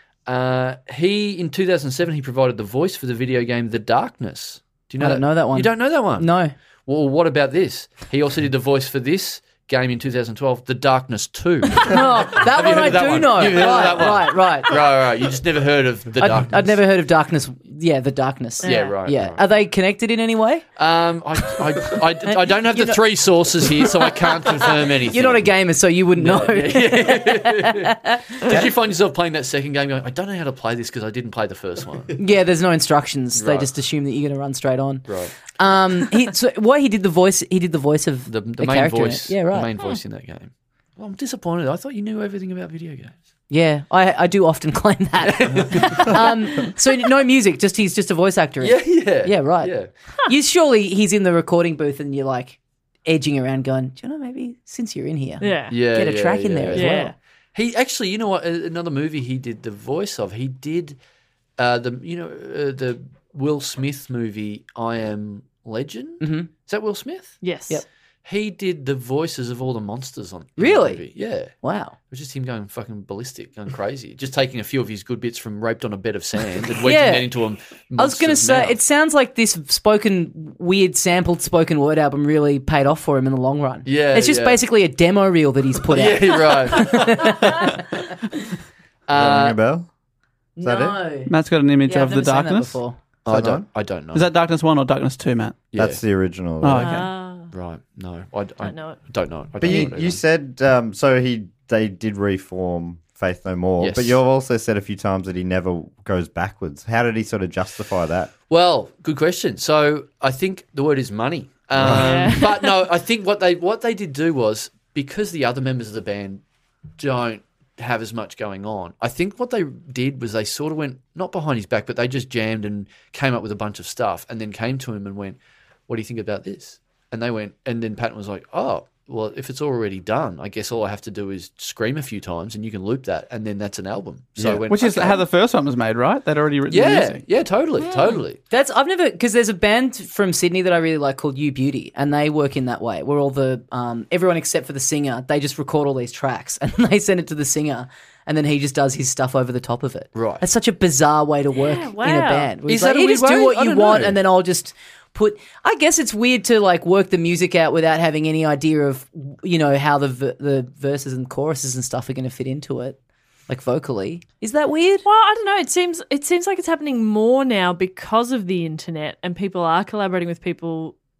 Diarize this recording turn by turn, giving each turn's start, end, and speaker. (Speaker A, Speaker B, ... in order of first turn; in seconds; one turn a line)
Speaker A: 0.2-16.8
Speaker B: 5.0-6.5
Speaker B: 11.8-14.7
Speaker B: 16.2-20.6
Speaker C: 18.6-19.0
Speaker A: 18.6-19.4
Speaker A: 20.8-25.5
Speaker B: 22.2-23.0
Speaker B: 23.7-24.1
Speaker B: 25.1-28.7
Speaker A: 26.1-32.2
Speaker B: 32.2-39.7
Speaker A: 33.3-33.7
Speaker A: 35.1-35.3
Speaker A: 38.3-43.1
Speaker B: 43.5-49.8
Speaker A: 45.2-46.3
Speaker A: 48.6-49.9
Speaker B: 50.3-57.1
Speaker C: 55.4-55.8
Speaker A: 55.7-61.0
Speaker C: 56.7-57.1
Speaker A: 61.6-67.4
Speaker B: 66.2-66.5
Speaker C: 67.4-67.8
Speaker A: 68.2-71.6
Speaker B: 70.6-71.9
Speaker A: 72.1-78.8
Speaker B: 76.8-77.3
Speaker B: 78.0-87.8
Speaker A: 83.8-84.6
Speaker A: 85.9-87.4
Speaker A: 89.1-89.6
Speaker D: 89.1-89.9
Speaker B: 90.6-91.3
Speaker D: 90.6-91.0
Speaker E: 91.2-92.8
Speaker B: 91.8-93.0
Speaker A: 93.2-94.3
Speaker D: 93.3-93.6
Speaker E: 94.1-95.6
Speaker A: 95.7-96.0
Speaker D: 95.7-97.0
Speaker E: 96.6-97.0
Speaker C: 96.8-97.5
Speaker A: 97.5-100.2
Speaker C: 98.6-99.0
Speaker D: 99.6-108.3
Speaker A: 103.8-104.2
Speaker A: 108.5-116.4
Speaker C: 111.9-112.8
Speaker A: 117.0-125.4
Speaker A: 125.9-135.2
Speaker D: 134.4-134.7
Speaker E: 134.7-137.2
Speaker A: 136.7-138.4
Speaker C: 137.8-138.2
Speaker B: 138.5-165.0
Speaker A: 150.1-150.4
Speaker C: 151.5-152.5
Speaker A: 152.7-154.2
Speaker C: 165.0-170.9